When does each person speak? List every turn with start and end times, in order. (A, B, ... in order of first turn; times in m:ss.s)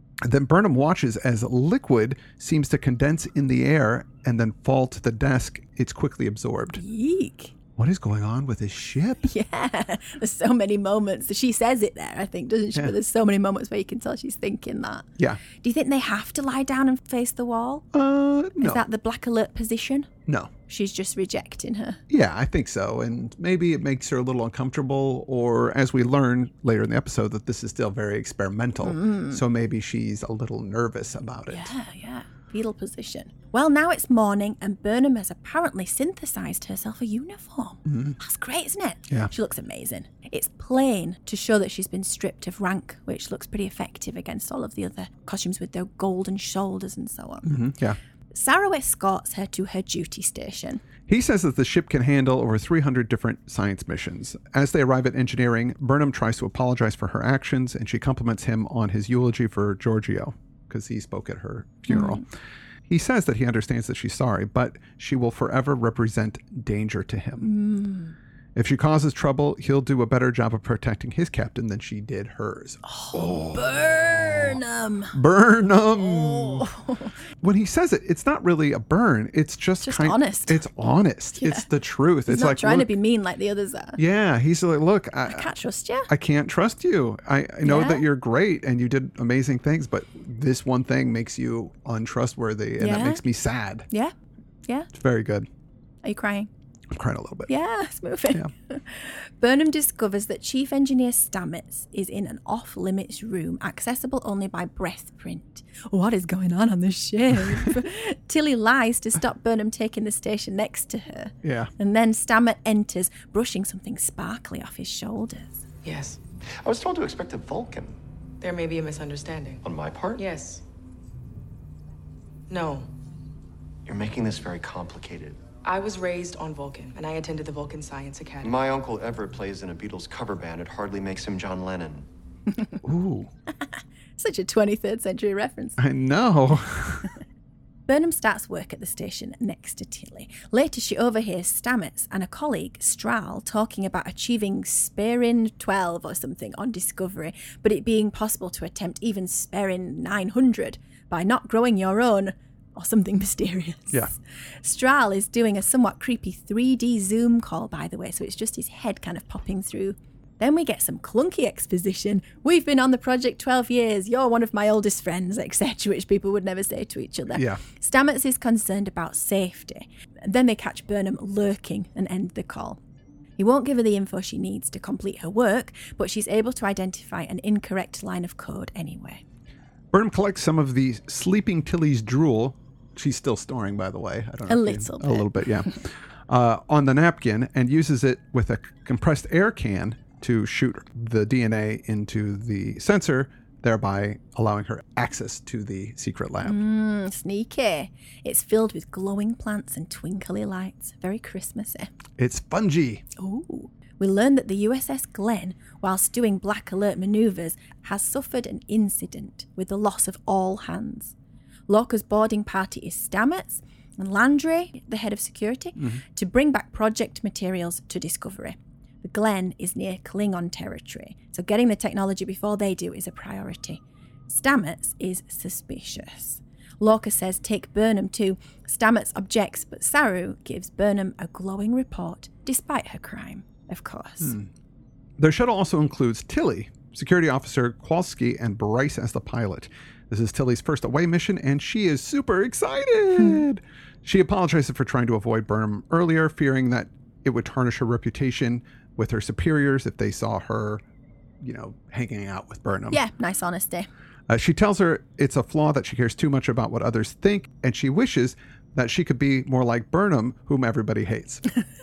0:00.2-0:06.8 A
0:06.8-0:07.5 B
0:07.8-0:09.3 A
0:09.2-0:17.9 B
0:17.9-0:18.8 A
0:18.6-0:20.1 B
0:20.7-0:22.0 B
0:22.1-0:31.7 A
0:28.8-0:29.4 B
0:31.5-0:47.6 B
0:37.9-0:38.2 A
0:47.5-0:48.0 A
0:48.3-0:50.8 B
0:51.1-1:02.2 A
1:01.9-1:02.2 B
1:02.9-1:07.5 A
1:07.4-1:08.2 B
1:08.6-1:14.5 A
1:12.8-1:15.2 B
1:15.1-1:16.7 A
1:16.0-1:17.1 B
1:17.4-1:22.9 A
1:19.8-1:20.6 B
1:21.4-1:21.7 B
1:22.3-1:24.0 B
1:24.0-1:25.5 A
1:25.3-1:26.1 B
1:26.1-1:33.9 A
1:27.6-1:28.0 B
1:32.8-1:33.2 B
1:34.9-1:35.5 A
1:36.0-1:36.5 B
1:36.9-1:37.5 A
1:37.5-1:55.6 B
1:51.4-1:51.7 A
1:55.8-1:56.2 C
1:56.6-1:58.0 D
1:58.4-1:59.6 C
1:59.6-2:00.2 D
2:00.2-2:00.6 C
2:02.5-2:02.9 C
2:03.9-2:05.4 D
2:05.6-2:08.6 C
2:08.4-2:12.1 D
2:12.8-2:13.3 A
2:14.2-2:15.8 B
2:15.8-2:17.1 A
2:17.9-2:52.8 B
2:47.3-2:47.6 A
2:53.4-2:59.2 B
2:59.9-3:16.6 A
3:04.5-3:05.4 B
3:16.4-3:21.9 B
3:22.2-3:23.0 A
3:23.2-3:31.1 B
3:31.7-3:54.4 B
3:54.2-3:54.5 A
3:55.2-4:10.8 A
4:11.4-4:13.0 A
4:12.9-4:13.9 B
4:14.3-4:21.4 A